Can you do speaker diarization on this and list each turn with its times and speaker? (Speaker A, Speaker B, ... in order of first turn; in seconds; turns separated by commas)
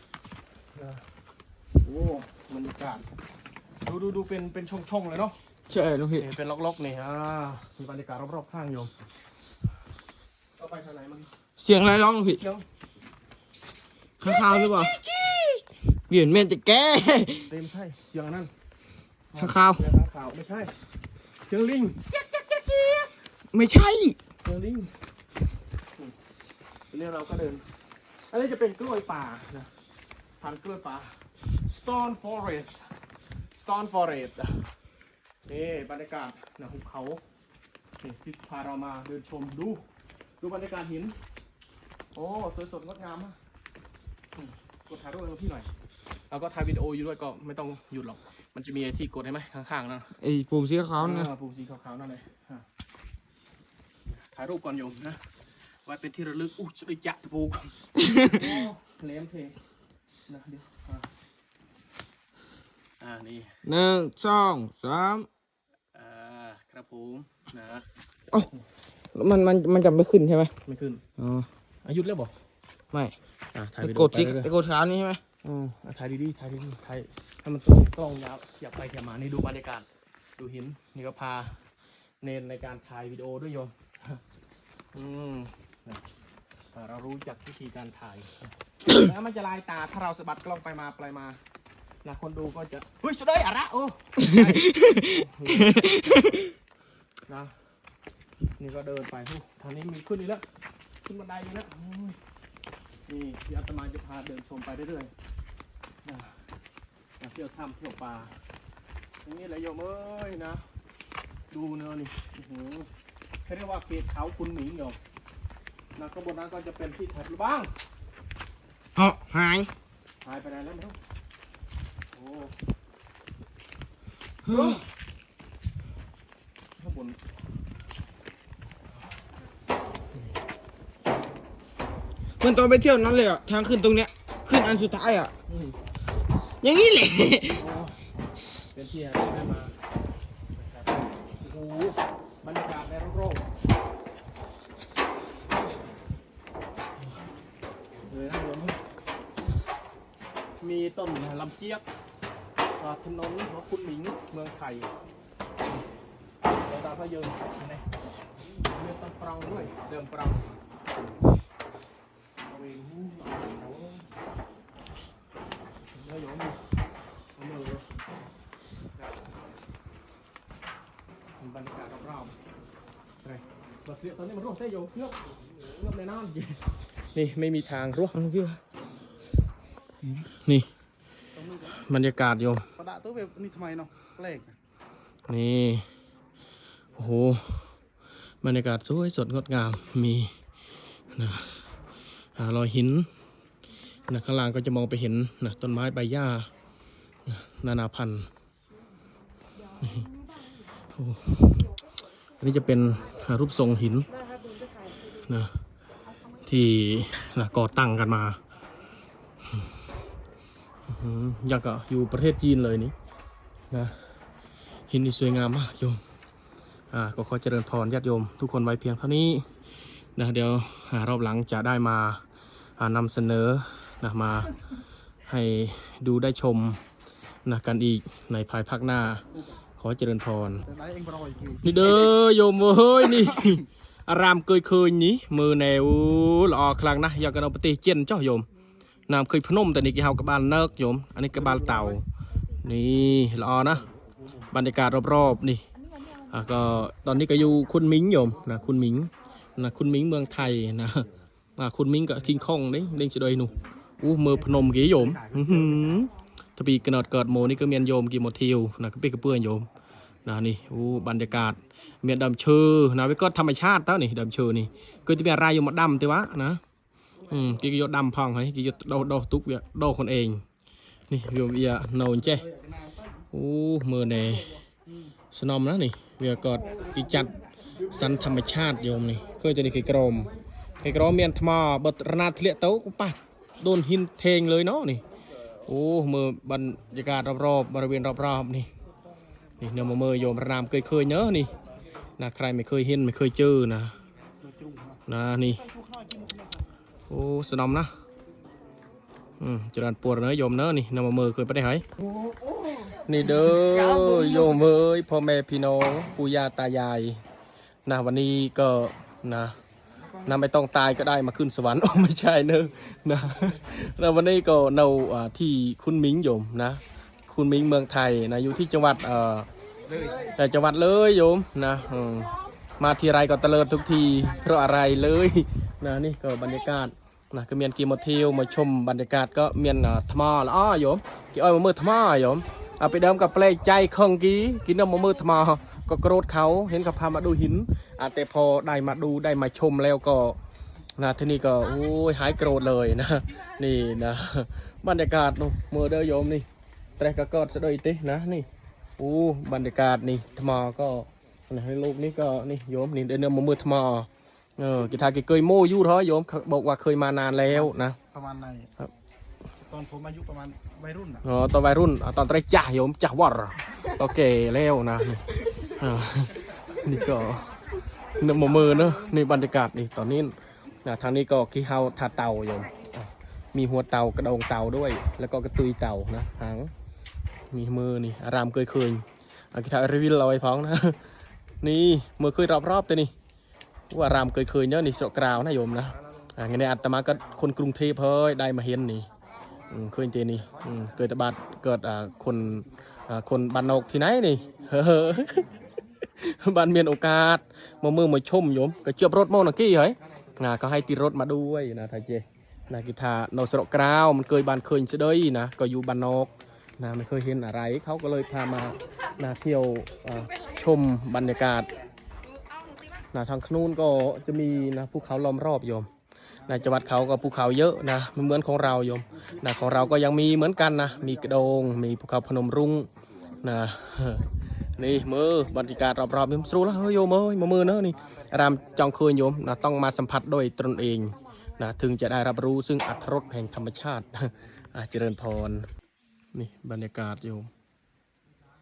Speaker A: 0.8-1.0, Speaker A: 1.8-3.1, Speaker A: 3.9-5.4, Speaker B: 5.7-6.3, Speaker A: 6.2-8.9, Speaker A: 10.6-11.3, Speaker B: 11.6-12.4, Speaker A: 12.2-12.7, Speaker B: 14.2-17.5, Speaker A: 17.4-18.5, Speaker A: 19.3-20.7, Speaker B: 19.4-19.8, Speaker A: 21.5-22.0, Speaker B: 22.1-24.2, Speaker A: 24.4-24.9, Speaker A: 26.9-27.6, Speaker A: 28.3-29.7, Speaker A: 30.4-32.9, Speaker A: 33.5-34.7, Speaker A: 35.5-37.2, Speaker A: 38.0-39.8, Speaker A: 40.4-41.2, Speaker A: 42.1-43.4, Speaker A: 44.4-45.7, Speaker A: 46.3-50.1, Speaker B: 50.2-51.3, Speaker A: 51.0-52.6, Speaker A: 54.1-55.2, Speaker A: 55.9-57.8, Speaker B: 58.0-58.5, Speaker A: 58.3-59.6, Speaker A: 60.3-61.1, Speaker A: 63.0-63.6, Speaker B: 63.6-65.3, Speaker A: 65.9-67.9, Speaker B: 69.2-70.5, Speaker A: 70.7-71.0, Speaker B: 71.2-71.5, Speaker A: 71.8-72.4, Speaker A: 73.5-74.5, Speaker B: 73.8-75.2, Speaker A: 75.4-79.9, Speaker A: 80.4-81.6, Speaker A: 82.2-84.2, Speaker A: 84.9-86.0, Speaker A: 86.7-91.4, Speaker A: 92.0-96.3, Speaker B: 94.3-96.5, Speaker A: 97.3-97.6, Speaker A: 98.6-100.4, Speaker A: 101.0-102.2, Speaker A: 103.1-105.1, Speaker A: 106.0-106.4, Speaker A: 107.2-108.4, Speaker A: 109.2-110.7, Speaker A: 111.5-112.9, Speaker A: 113.5-115.0, Speaker A: 116.0-117.7, Speaker B: 119.0-119.7, Speaker A: 120.2-121.0, Speaker A: 122.2-122.5, Speaker B: 124.5-124.8, Speaker A: 124.5-124.8, Speaker A: 126.8-127.2, Speaker B: 132.4-135.3, Speaker A: 135.5-135.8, Speaker B: 136.6-137.6, Speaker A: 137.5-138.0, Speaker A: 138.7-139.8, Speaker A: 140.6-143.5, Speaker A: 148.1-148.8, Speaker A: 150.6-151.8, Speaker A: 152.8-154.9, Speaker A: 156.6-157.9, Speaker A: 158.6-160.5, Speaker A: 162.5-164.1, Speaker A: 165.9-166.6, Speaker A: 167.4-167.8, Speaker A: 171.4-172.3, Speaker A: 173.2-176.6, Speaker A: 177.1-178.2, Speaker B: 178.1-178.6, Speaker A: 180.4-180.7, Speaker C: 181.4-181.8, Speaker A: 181.8-182.7, Speaker C: 182.8-184.6, Speaker A: 185.3-185.9, Speaker A: 187.0-187.7, Speaker A: 188.4-190.3, Speaker A: 191.1-191.6, Speaker A: 192.4-193.1, Speaker A: 194.1-196.5, Speaker A: 197.3-198.3, Speaker A: 199.8-200.1, Speaker A: 200.9-201.7, Speaker A: 202.4-204.1, Speaker A: 205.2-205.5, Speaker A: 206.4-208.4, Speaker A: 210.9-212.9, Speaker A: 213.7-214.0, Speaker A: 214.9-216.0, Speaker A: 216.9-219.5, Speaker A: 220.2-222.2, Speaker A: 222.8-224.6, Speaker A: 225.3-226.8, Speaker A: 227.5-229.2, Speaker A: 229.8-230.7, Speaker C: 230.7-231.7, Speaker A: 231.6-238.5, Speaker A: 239.1-242.0, Speaker A: 242.6-243.8, Speaker A: 244.5-245.7, Speaker A: 246.3-259.7, Speaker C: 255.0-255.6, Speaker A: 260.2-266.6, Speaker A: 267.3-270.4, Speaker A: 271.1-272.4, Speaker C: 272.4-273.1, Speaker A: 273.3-274.5, Speaker A: 275.3-277.4, Speaker A: 277.9-280.3, Speaker A: 280.8-285.0, Speaker A: 285.7-288.7, Speaker A: 289.6-291.5, Speaker A: 292.2-293.9, Speaker C: 294.4-295.0, Speaker A: 295.1-295.6, Speaker C: 295.7-296.5, Speaker A: 297.1-297.9, Speaker A: 299.4-301.9, Speaker C: 302.0-302.9, Speaker A: 303.1-307.2, Speaker C: 303.6-304.5, Speaker A: 307.9-309.6, Speaker A: 310.2-319.5, Speaker B: 319.9-320.3, Speaker A: 320.4-340.4, Speaker A: 341.0-346.5, Speaker A: 347.0-348.5, Speaker A: 349.0-358.0, Speaker C: 357.5-358.7, Speaker C: 359.6-361.2, Speaker A: 361.2-367.5, Speaker A: 368.2-376.7, Speaker A: 377.5-381.0, Speaker A: 381.6-383.1, Speaker A: 383.9-389.1, Speaker A: 389.7-395.5, Speaker A: 396.0-411.7, Speaker A: 413.1-415.9, Speaker A: 416.5-422.9, Speaker A: 423.4-435.7, Speaker A: 436.3-437.5